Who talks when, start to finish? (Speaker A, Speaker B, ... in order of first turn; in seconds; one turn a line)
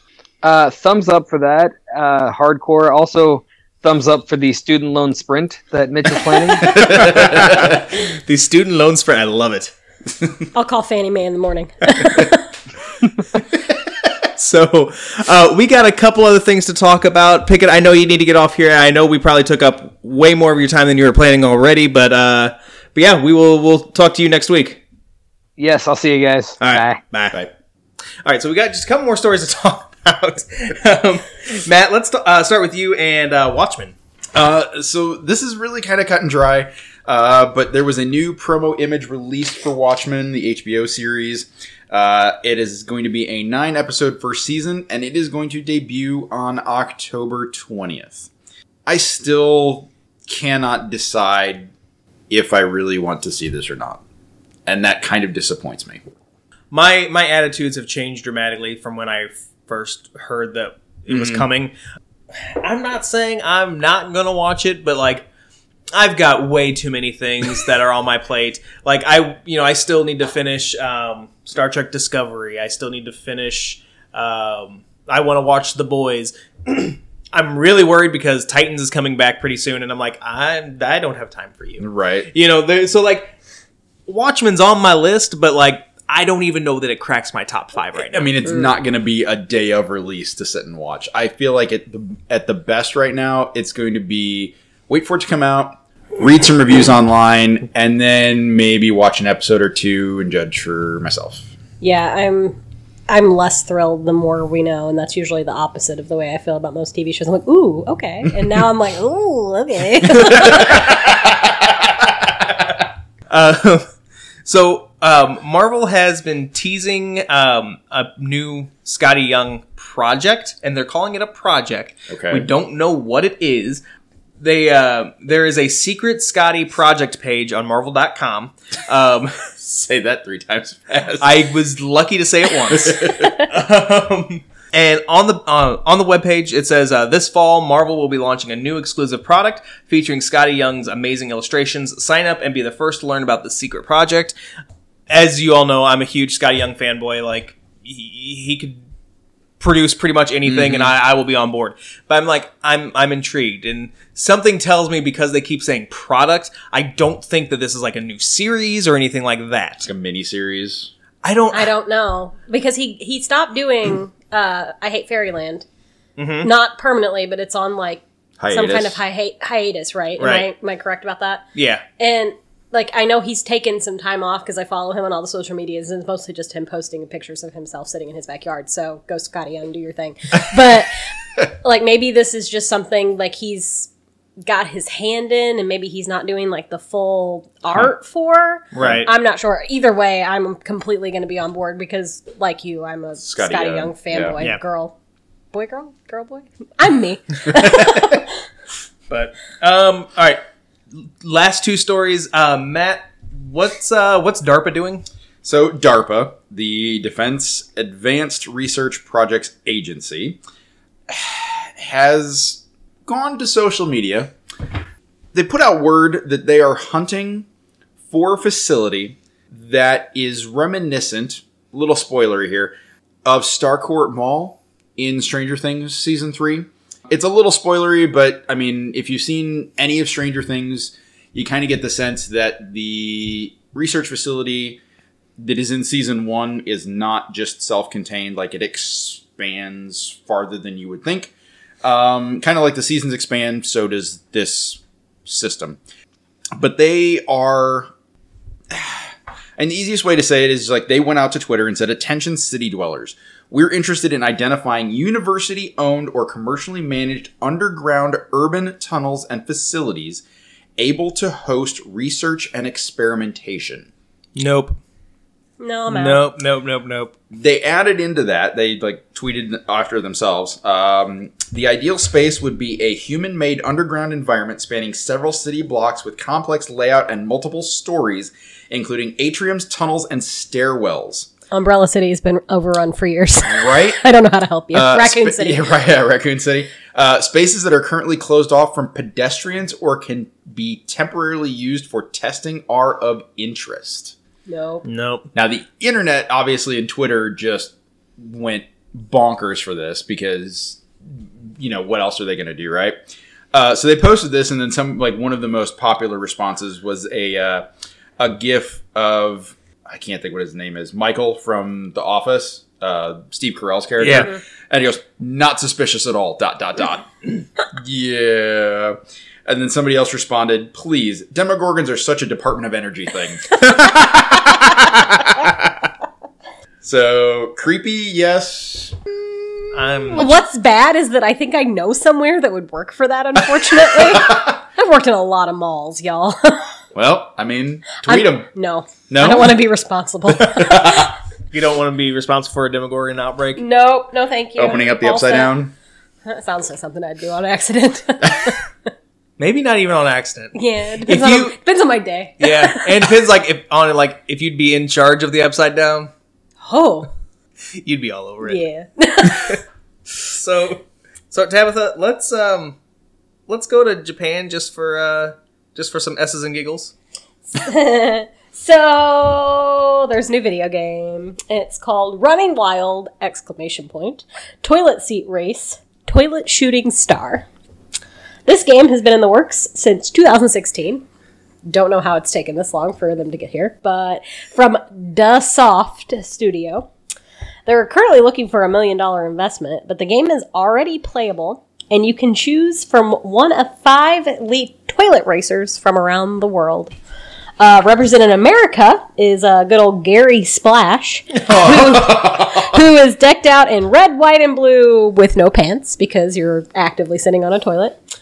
Speaker A: 0.4-6.9
Speaker B: 6.7-9.7
Speaker C: 6.8-7.7
Speaker D: 10.5-12.4
Speaker B: 14.3-24.8
Speaker A: 25.6-27.0
Speaker B: 26.6-27.4
Speaker B: 28.2-34.0
Speaker C: 34.4-48.3
Speaker C: 48.9-51.7
Speaker C: 52.3-54.0
Speaker C: 54.7-56.0
Speaker B: 56.7-61.7
Speaker C: 61.1-61.5
Speaker B: 62.3-65.3
Speaker B: 65.9-83.3
Speaker C: 81.8-82.3
Speaker B: 84.1-88.3
Speaker C: 88.0-101.5
Speaker D: 101.8-110.9
Speaker B: 113.3-113.9
Speaker B: 114.5-123.8
Speaker C: 122.1-122.5
Speaker B: 124.4-129.5
Speaker C: 129.6-131.3
Speaker B: 131.2-144.3
Speaker C: 132.7-133.3
Speaker B: 145.1-148.8
Speaker B: 149.6-159.9
Speaker C: 150.5-150.9
Speaker C: 159.8-160.9
Speaker B: 161.2-161.7
Speaker D: 161.5-165.7
Speaker B: 166.2-166.5
Speaker D: 166.4-171.5
Speaker C: 168.4-169.0
Speaker B: 170.2-170.5
Speaker B: 171.6-171.8
Speaker D: 172.0-183.9
Speaker D: 184.4-195.0
Speaker B: 188.7-189.1
Speaker C: 188.8-189.0
Speaker C: 193.2-194.4
Speaker D: 195.5-198.3
Speaker B: 199.1-200.4
Speaker B: 200.9-205.1
Speaker C: 205.4-210.4
Speaker C: 211.1-214.3
Speaker C: 215.3-217.5
Speaker C: 218.1-222.7
Speaker C: 223.2-234.8
Speaker C: 235.4-245.8
Speaker C: 246.6-247.9
Speaker C: 248.7-260.2
Speaker C: 260.8-263.9
Speaker B: 264.4-264.8
Speaker D: 265.6-266.3
Speaker B: 265.9-267.1
Speaker C: 267.3-281.3
Speaker D: 281.5-285.6
Speaker C: 283.4-284.0
Speaker C: 284.7-294.1
Speaker D: 294.5-294.9
Speaker B: 294.9-295.3
Speaker C: 295.4-303.0
Speaker C: 303.5-307.7
Speaker C: 308.2-317.2
Speaker B: 314.0-314.3
Speaker C: 317.7-325.8
Speaker C: 326.8-330.2
Speaker B: 329.7-330.3
Speaker D: 330.1-336.8
Speaker C: 333.9-334.6
Speaker C: 336.9-338.5
Speaker D: 338.0-341.1
Speaker C: 339.1-339.6
Speaker C: 340.4-341.1
Speaker B: 341.5-343.6
Speaker D: 343.6-345.6
Speaker C: 344.6-345.7
Speaker D: 346.3-348.6
Speaker B: 349.4-351.5
Speaker D: 350.6-353.0
Speaker B: 352.4-356.1
Speaker D: 356.6-357.1
Speaker B: 357.8-358.6
Speaker D: 358.4-359.6
Speaker B: 360.2-362.8
Speaker B: 363.5-366.9
Speaker D: 367.5-377.5
Speaker D: 378.5-381.1
Speaker D: 381.7-386.9
Speaker D: 387.7-396.9
Speaker D: 397.6-408.0
Speaker C: 401.5-402.8